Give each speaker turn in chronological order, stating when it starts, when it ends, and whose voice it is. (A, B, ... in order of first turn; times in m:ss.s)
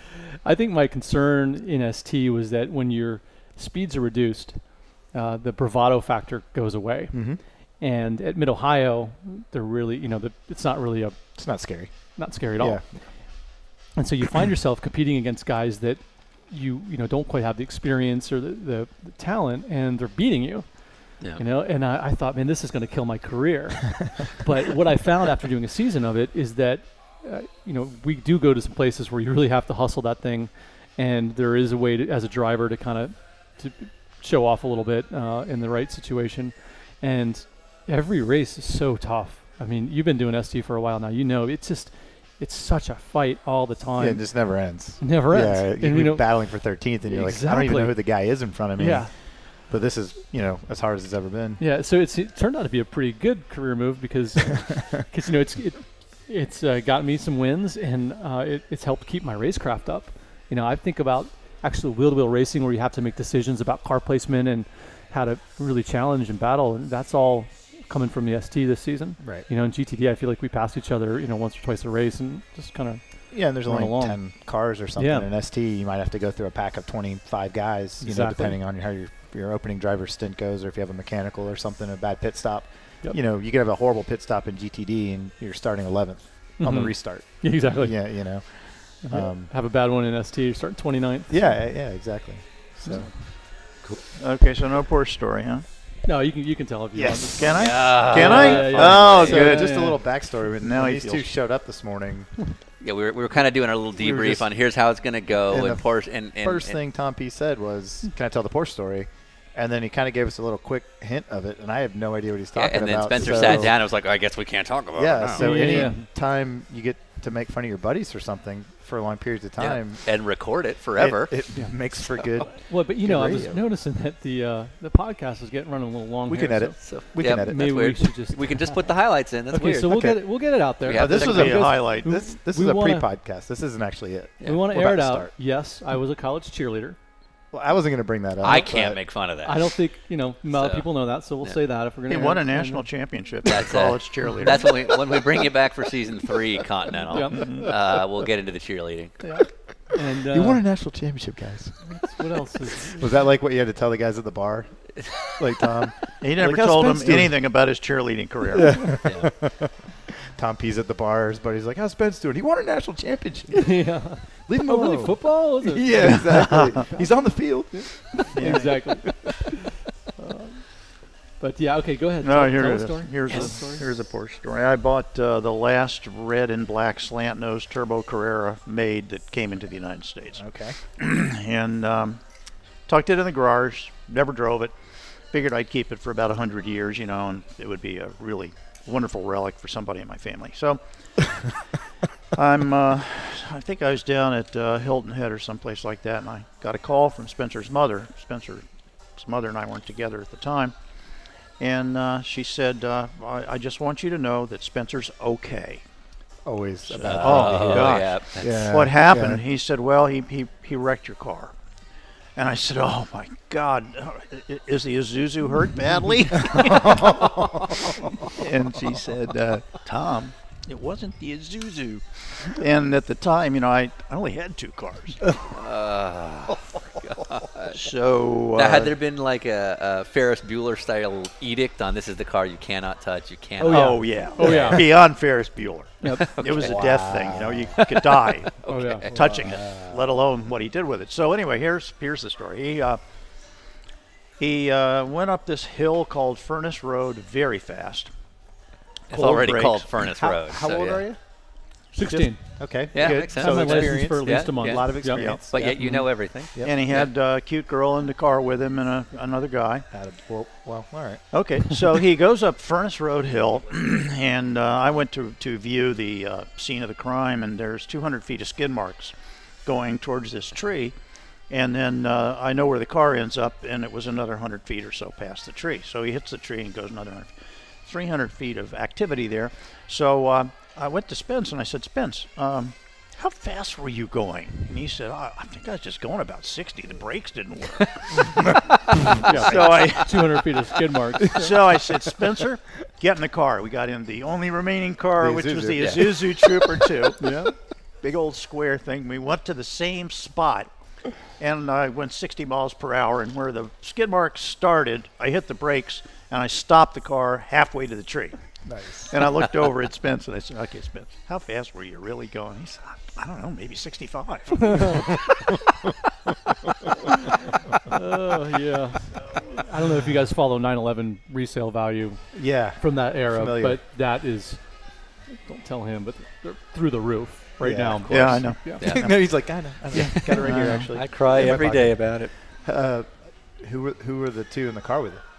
0:00.4-0:49.4 A
0:07.1-0:07.4 B
0:11.3-0:12.8 B
0:44.0-0:51.6 B
0:51.6-1:15.3 A
1:09.2-1:09.5 B
1:13.3-1:29.5 B
1:18.0-1:18.6 A
1:26.6-1:31.6 A
1:31.3-1:33.1 B
1:32.8-1:33.1 A
1:34.2-1:35.6 C
1:36.0-1:40.0 A
1:36.9-1:42.3 B
1:37.4-1:39.9 C
1:37.5-1:39.5 D
1:40.6-1:41.3 C
1:42.8-1:46.8 D
1:44.0-1:44.5 B
1:45.5-1:53.7 B
1:52.5-1:56.0 D
1:53.3-1:53.7 A
1:55.0-2:00.1 B
1:55.4-1:56.1 A
1:59.6-2:02.2 D
2:01.0-2:03.6 B
2:02.4-2:09.0 A
2:06.2-2:07.6 B
2:06.8-2:10.0 D
2:09.5-2:13.1 A
2:09.9-2:15.3 B
2:10.8-2:11.4 D
2:11.0-2:12.1 C
2:14.4-2:17.0 A
2:17.5-2:19.0 B
2:18.4-2:19.8 D
2:19.4-2:22.9 A
2:20.5-2:21.6 D
2:22.1-2:24.6 C
2:23.4-2:29.2 D
2:27.1-2:27.6 A
2:27.4-2:27.7 C
2:29.9-2:30.7 A
2:30.2-2:32.2 B
2:31.8-2:33.1 A
2:32.8-2:37.4 B
2:36.2-2:38.8 C
2:38.5-2:48.4 B
2:39.0-2:39.3 D
2:43.5-2:49.6 A
2:46.0-2:46.8 C
2:48.3-2:48.9 C
2:50.2-2:53.8 A
2:52.2-3:02.2 C
3:00.4-3:00.8 B
3:02.9-3:11.5 C
3:12.3-3:25.8 C
3:26.4-3:29.4 B
3:26.9-3:31.5 C
3:27.0-3:28.7 D
3:32.4-3:37.3 C
3:36.5-3:38.1 B
3:37.8-3:45.3 C
3:45.5-3:47.9 D
3:47.7-3:48.9 C
3:48.5-3:54.8 D
3:53.6-3:54.9 A
3:53.7-4:03.0 C
3:56.0-3:56.4 A
3:56.1-3:56.8 D
3:56.6-3:58.0 B
3:58.6-3:59.2 D
3:58.6-3:59.1 A
3:59.1-4:00.0 B
4:04.4-4:08.1 C
4:09.1-4:11.0 D
4:09.1-4:09.9 C
4:10.0-4:11.2 B
4:11.9-4:16.1 A
4:12.0-4:12.3 C
4:12.6-4:16.8 B
4:12.9-4:17.1 D
4:15.2-4:15.4 C
4:16.6-4:19.9 C
4:19.9-4:21.2 B
4:21.3-4:31.0 C
4:31.5-4:48.6 C
4:49.1-4:51.5 A
4:49.1-4:50.4 C
4:51.3-4:57.2 C
4:55.2-4:56.7 B
4:55.8-4:56.1 D
4:57.2-4:57.5 A
4:58.0-5:08.4 C
5:08.6-5:09.2 B
5:09.1-5:15.2 C
5:14.6-5:15.2 A
5:17.9-5:28.9 A
5:22.3-5:23.8 B
5:27.6-5:35.2 B
5:28.1-5:28.6 C
5:28.3-5:32.3 D
5:30.5-5:30.8 A